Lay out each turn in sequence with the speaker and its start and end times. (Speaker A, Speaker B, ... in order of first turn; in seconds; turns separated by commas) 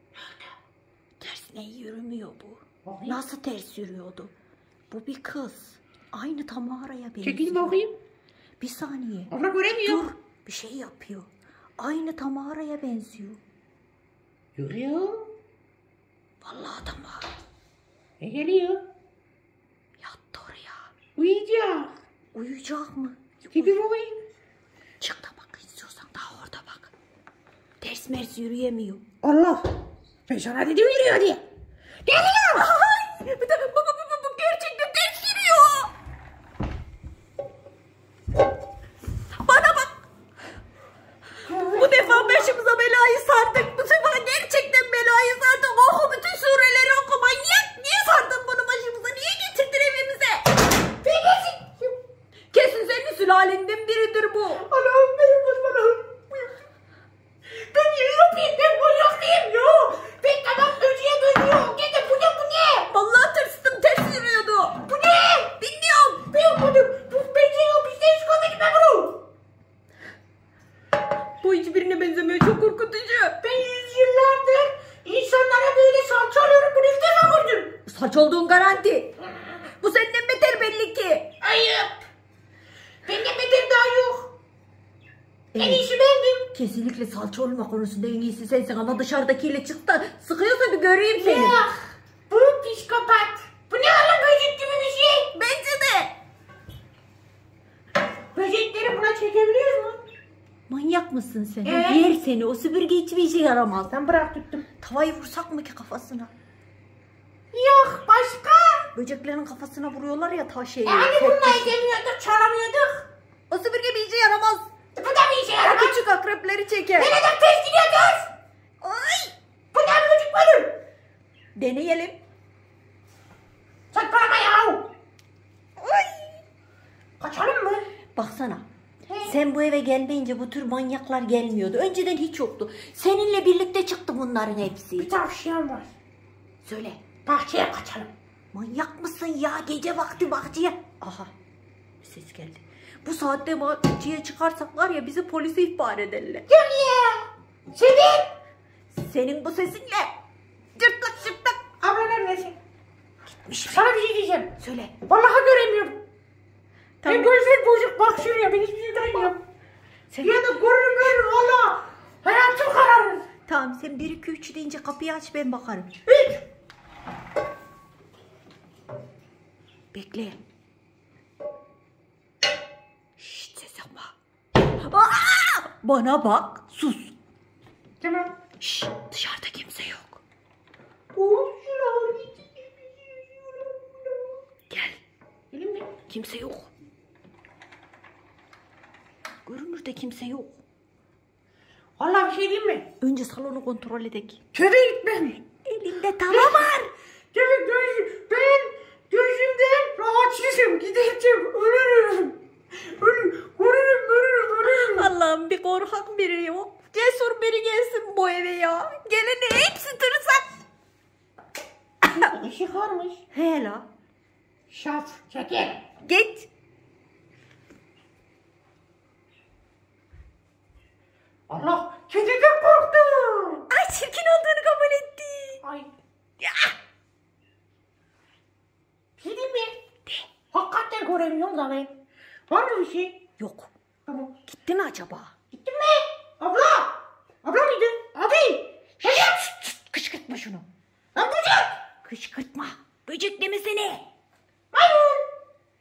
Speaker A: 1.2-4.3, Speaker B: 2.9-3.2, Speaker A: 4.9-7.8, Speaker B: 7.2-8.0, Speaker A: 8.6-13.4, Speaker B: 9.3-10.0, Speaker B: 14.6-15.3, Speaker A: 16.4-17.3, Speaker B: 18.2-18.8, Speaker A: 20.0-20.8, Speaker B: 21.2-21.9, Speaker A: 22.3-23.8, Speaker B: 23.5-24.2, Speaker A: 25.0-26.9, Speaker A: 27.8-29.0, Speaker B: 29.2-31.4, Speaker B: 32.1-32.7, Speaker A: 32.5-35.9, Speaker A: 39.3-40.0, Speaker B: 41.4-42.5, Speaker A: 41.7-50.5, Speaker B: 51.0-52.0, Speaker A: 52.5-54.7, Speaker B: 54.6-56.5, Speaker B: 57.6-62.9, Speaker A: 62.9-66.3, Speaker B: 64.9-65.5, Speaker B: 66.3-69.2, Speaker A: 71.4-73.4, Speaker B: 73.4-77.8, Speaker A: 77.9-79.2, Speaker A: 79.8-81.3, Speaker B: 81.4-82.0, Speaker B: 83.0-84.3, Speaker A: 85.5-85.9, Speaker B: 85.6-86.5, Speaker A: 86.5-91.6, Speaker B: 91.2-95.3, Speaker A: 95.3-96.1, Speaker B: 98.3-100.0, Speaker A: 100.7-103.9, Speaker B: 101.6-102.1, Speaker B: 103.9-104.7, Speaker A: 104.8-106.3, Speaker B: 107.5-108.9, Speaker A: 108.9-111.8, Speaker B: 110.9-113.1, Speaker A: 113.5-114.7, Speaker B: 115.0-116.0, Speaker A: 115.6-117.2, Speaker B: 117.0-118.3, Speaker A: 118.8-119.3, Speaker B: 119.7-120.8, Speaker A: 121.6-122.2, Speaker B: 123.9-124.9, Speaker A: 125.8-126.4, Speaker B: 127.2-127.8, Speaker A: 128.2-128.7, Speaker B: 129.1-129.4, Speaker A: 129.2-135.1, Speaker B: 135.0-135.9, Speaker A: 136.6-137.0, Speaker B: 137.3-138.1, Speaker A: 138.5-141.3, Speaker A: 142.0-146.5, Speaker B: 146.5-148.3, Speaker A: 148.9-150.1, Speaker A: 150.8-151.6, Speaker B: 151.8-152.6, Speaker A: 153.3-153.9, Speaker B: 153.7-154.5, Speaker A: 154.6-154.9, Speaker B: 155.1-156.0, Speaker A: 157.0-157.3, Speaker B: 157.1-159.4, Speaker A: 160.1-160.5, Speaker B: 160.2-163.3, Speaker A: 163.5-165.9, Speaker B: 166.1-166.4, Speaker A: 169.9-170.4, Speaker A: 173.2-174.1, Speaker A: 174.8-177.1, Speaker B: 178.0-178.3, Speaker A: 178.6-180.2, Speaker B: 181.1-184.4, Speaker A: 184.7-185.0, Speaker B: 185.5-186.0, Speaker A: 186.1-186.7, Speaker A: 189.5-190.6, Speaker B: 192.0-192.9, Speaker A: 193.0-194.4, Speaker B: 194.5-195.4, Speaker A: 195.7-196.9, Speaker B: 196.3-196.7, Speaker B: 197.3-205.1, Speaker A: 204.7-210.5, Speaker B: 212.0-213.2, Speaker A: 213.3-213.9, Speaker B: 214.7-215.8, Speaker A: 216.0-216.5, Speaker B: 221.5-223.7, Speaker A: 223.7-225.6, Speaker B: 225.6-225.9, Speaker A: 226.4-226.8, Speaker B: 229.2-229.8, Speaker B: 230.5-231.9, Speaker B: 232.5-233.2, Speaker A: 233.4-233.7, Speaker B: 234.1-234.3, Speaker A: 234.5-235.3, Speaker B: 235.5-239.4, Speaker A: 239.0-240.7, Speaker B: 241.2-241.7, Speaker A: 242.0-244.0, Speaker B: 244.7-245.2